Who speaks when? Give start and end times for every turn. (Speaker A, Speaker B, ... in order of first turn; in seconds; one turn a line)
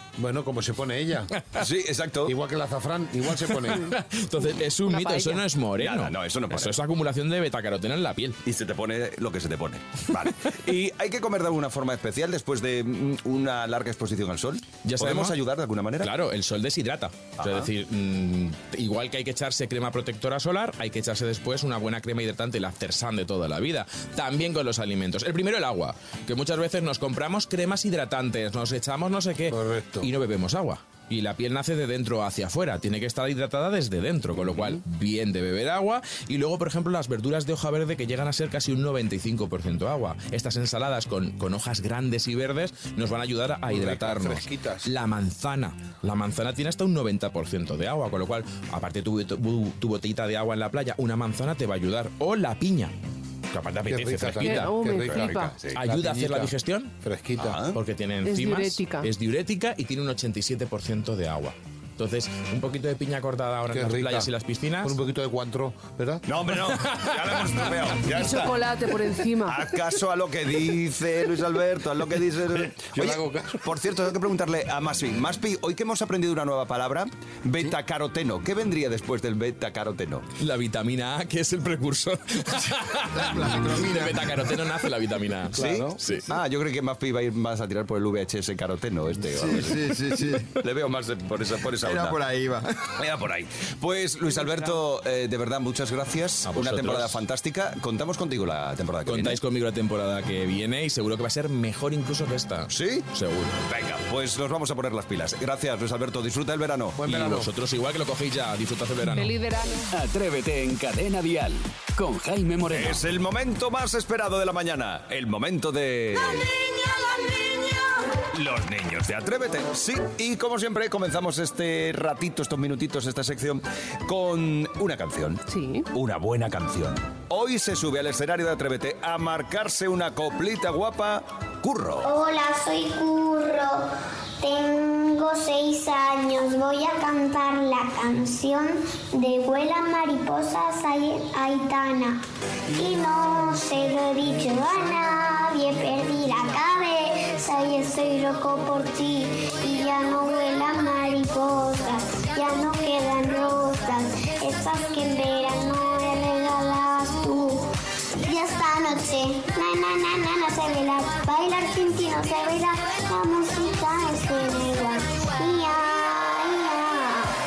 Speaker A: 0.2-1.3
Speaker B: 1.6-2.3
Speaker A: 2.2-3.9
Speaker C: 3.5-8.4
Speaker D: 4.9-5.4
Speaker B: 5.8-6.8
Speaker B: 8.4-16.1
Speaker C: 14.8-15.3
Speaker C: 16.0-52.9
Speaker B: 17.4-17.7
Speaker A: 29.5-30.1
Speaker A: 43.7-44.9
Speaker C: 53.5-54.8
Speaker A: 53.9-57.6
Speaker D: 54.4-55.5
Speaker B: 55.0-55.7
Speaker C: 55.7-56.9
Speaker B: 57.4-57.8
Speaker C: 57.7-64.9
Speaker D: 58.2-59.1
Speaker A: 63.7-64.3
Speaker A: 64.8-66.2
Speaker B: 66.2-68.7
Speaker D: 68.1-69.7
Speaker B: 69.5-80.2
Speaker A: 72.5-73.7
Speaker C: 80.4-86.3
Speaker E: 83.1-84.3
Speaker A: 85.5-86.0
Speaker B: 85.6-92.2
Speaker E: 89.4-90.5
Speaker E: 91.8-92.8
Speaker B: 93.0-99.4
Speaker D: 94.3-94.7
Speaker C: 96.5-97.2
Speaker C: 99.1-103.6
Speaker B: 102.7-103.0
Speaker B: 103.7-107.0
Speaker A: 107.0-107.5
Speaker C: 107.0-109.3
Speaker D: 109.0-109.9
Speaker F: 109.9-113.0
Speaker B: 112.7-116.5
Speaker B: 118.3-132.1
Speaker D: 125.5-125.9
Speaker G: 132.0-133.8
Speaker G: 134.4-142.2
Speaker G: 142.7-157.7
Speaker G: 158.2-167.3